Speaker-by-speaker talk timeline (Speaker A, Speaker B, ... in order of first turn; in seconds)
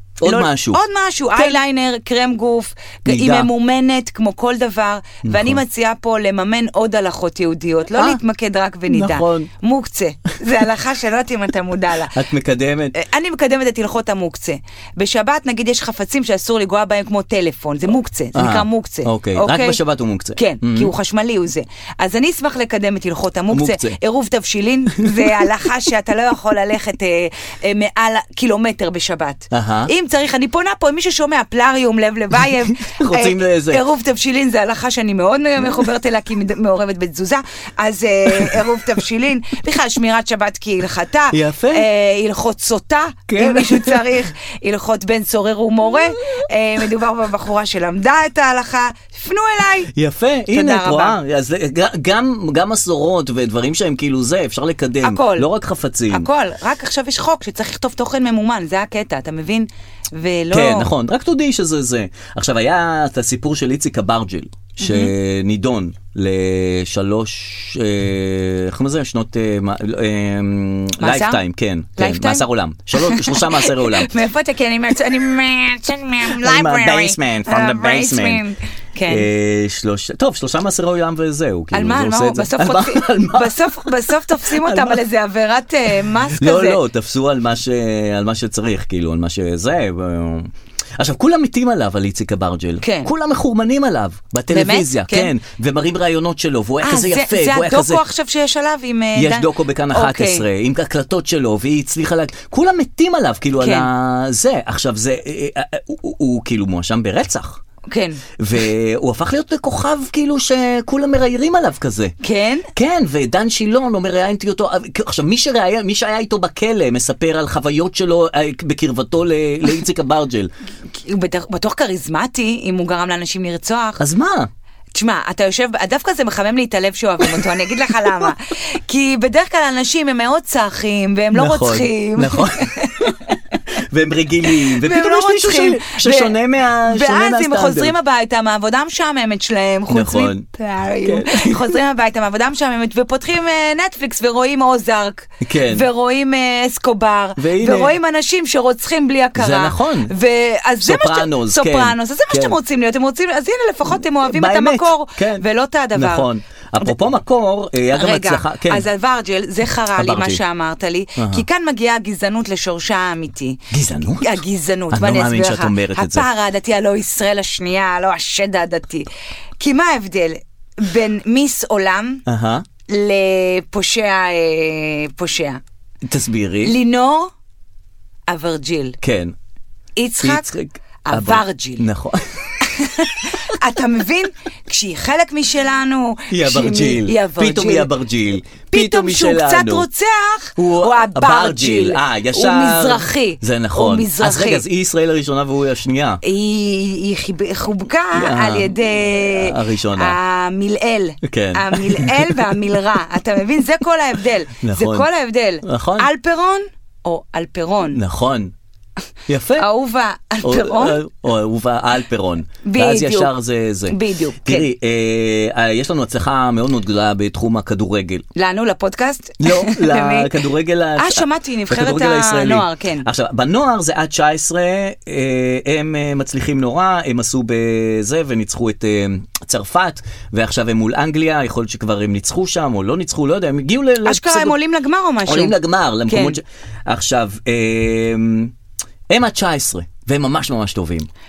Speaker A: 0.2-0.8, 3.1-3.5, 5.2-5.6, 8.9-9.5, 12.1-13.0, 18.4-20.9, 23.5-24.0, 25.0-25.4, 29.5-29.9, 32.8-33.8, 41.3-41.9, 43.3-44.0, 49.9-56.3, 60.5-74.1, 76.2-78.4, 79.1-85.0, 86.3-98.0, 99.1-107.6, 108.4-112.1, 112.8-120.5, 124.0-124.5, 131.3-133.2, 133.7-137.9, 139.9-140.5, 141.0-141.8, 145.4-145.9, 147.4-147.9, 149.4-150.1, 150.8-152.6, 153.9-158.9, 160.0-160.4, 161.2-161.4, 163.7-166.3, 172.3-172.6, 176.1-176.8, 179.0-179.3, 180.2-182.6, 186.3-189.9, 190.6-196.2, 198.1-200.2, 201.2-202.5, 204.6-205.1, 205.6-206.1, 207.9-208.5, 209.3-209.7, 210.4-218.2, 219.4-234.6, 235.2-238.5, 239.1-241.1
Speaker B: 0.2-12.2, 12.9-19.8, 20.4-49.9, 50.5-51.2, 55.0-55.5, 56.1-60.9, 64.8-65.1, 71.0-71.4, 72.0-79.3, 81.7-86.8, 92.8-93.1, 94.5-95.3, 96.8-100.5, 103.6-103.9, 107.9-108.2, 112.2-112.7, 120.9-124.0, 124.9-133.6, 134.5-156.3, 157.9-172.2, 172.9-175.6, 176.6-177.3, 178.3-179.0, 180.0-180.5, 181.1-181.9, 182.6-187.9, 188.7-194.6, 196.2-208.0, 209.6-211.0, 212.6-213.3, 213.9-214.7, 218.3-220.4, 221.0-223.1, 234.1-235.6, 236.1-236.4